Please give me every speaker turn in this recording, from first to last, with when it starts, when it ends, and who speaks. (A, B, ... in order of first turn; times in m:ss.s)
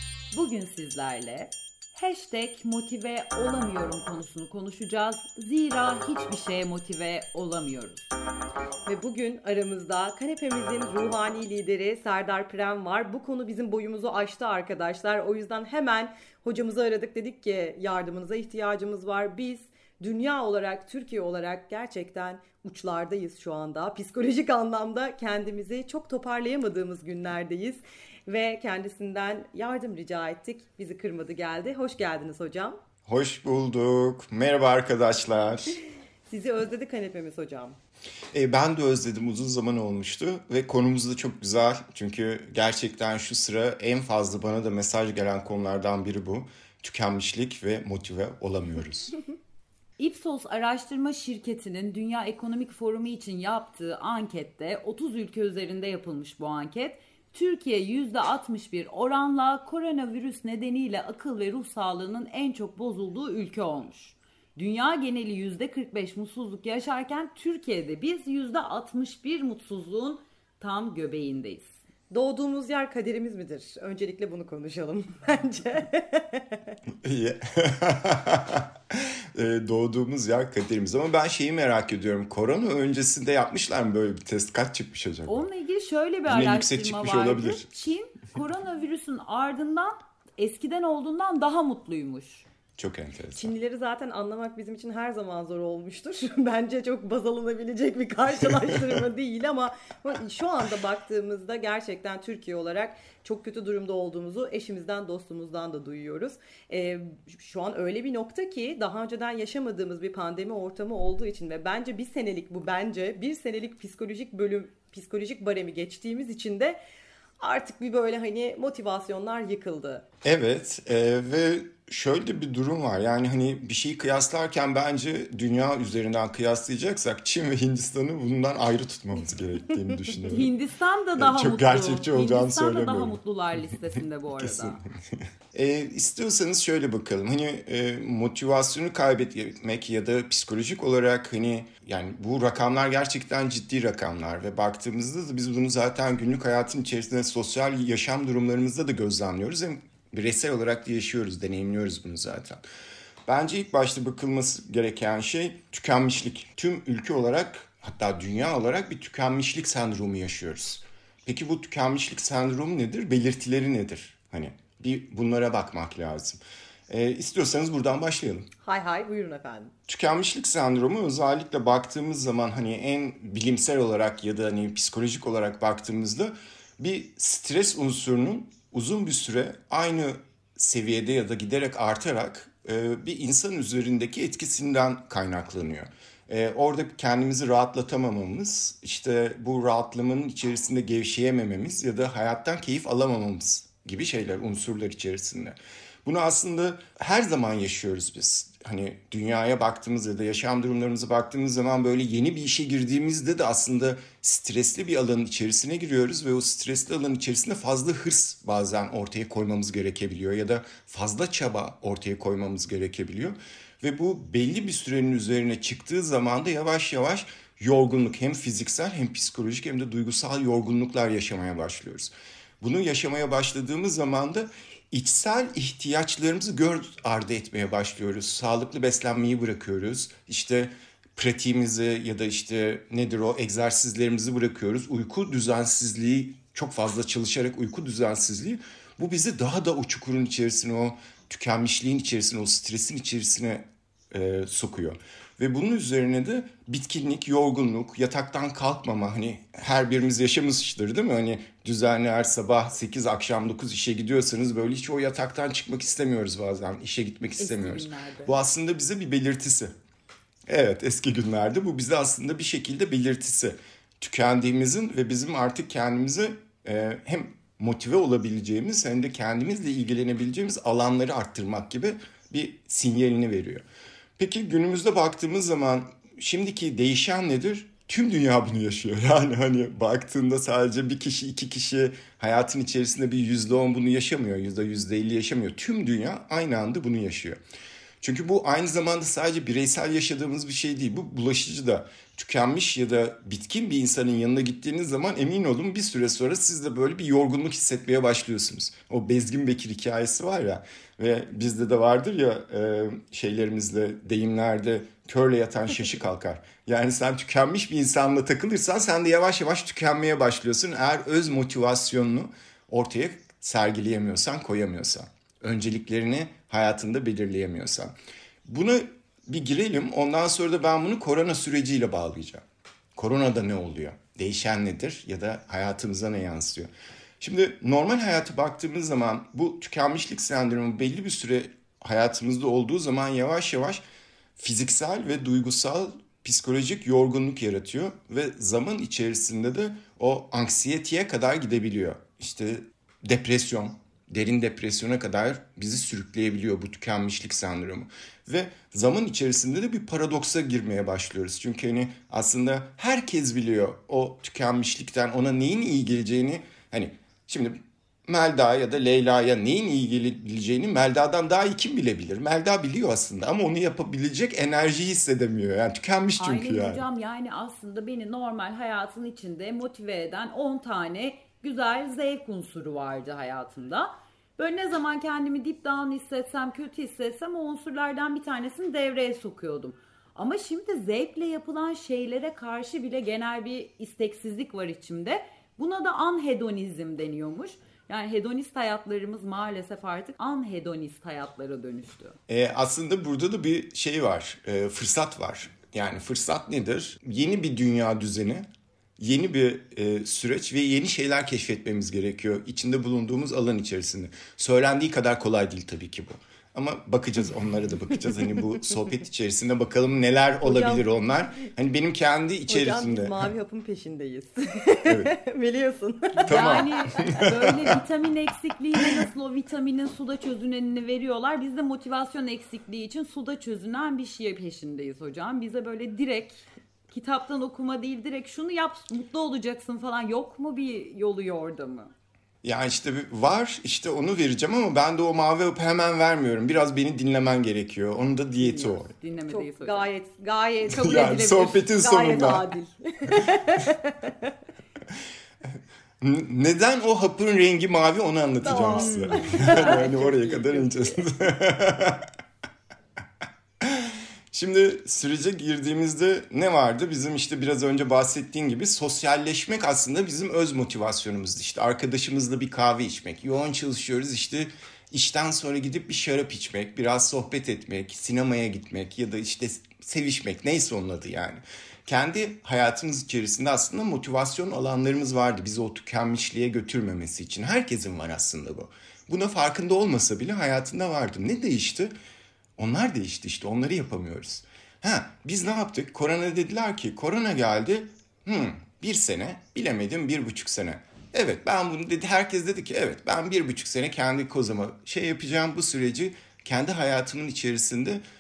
0:00.3-0:08.1 A
0:08.9-0:32.8 B
0:33.0-0:35.8 C
0:36.3-0:37.8 B
0:38.3-0:49.2 C
0:50.0-1:11.7 A
1:12.1-1:16.6 B
1:17.0-1:25.5 C
1:25.3-1:32.4 A
1:26.3-1:27.7 C
1:32.8-1:33.5 C
1:33.3-1:56.8 B
1:57.4-2:00.0 B
2:00.2-2:10.5 C
2:10.2-2:14.8 A
2:11.2-2:13.2 C
2:14.4-2:14.8 C
2:15.5-2:32.6 C
2:33.3-2:48.5 C
2:48.6-2:49.7 B
2:49.9-4:19.7 C
4:17.4-4:18.3 A
4:20.5-4:33.6 C
4:34.2-4:47.4 C
4:48.0-5:17.9 C
5:18.4-5:22.4 C
5:23.0-5:26.7 C
5:27.2-5:33.8 C
5:34.4-5:57.6 C
5:58.1-6:06.8 C
6:06.2-6:32.2 A
6:32.3-6:38.5 C
6:39.0-6:53.3 C
6:50.4-6:50.9 B
6:52.5-6:57.3 B
6:56.2-6:57.8 C
6:56.3-7:11.9 A
7:12.4-7:18.9 C
7:18.4-7:19.9 A
7:19.3-7:24.3 B
7:20.7-7:22.5 C
7:26.0-7:32.1 C
7:28.4-7:31.0 B
7:28.7-7:29.9 A
7:33.6-8:01.9 C
8:02.6-8:18.0 C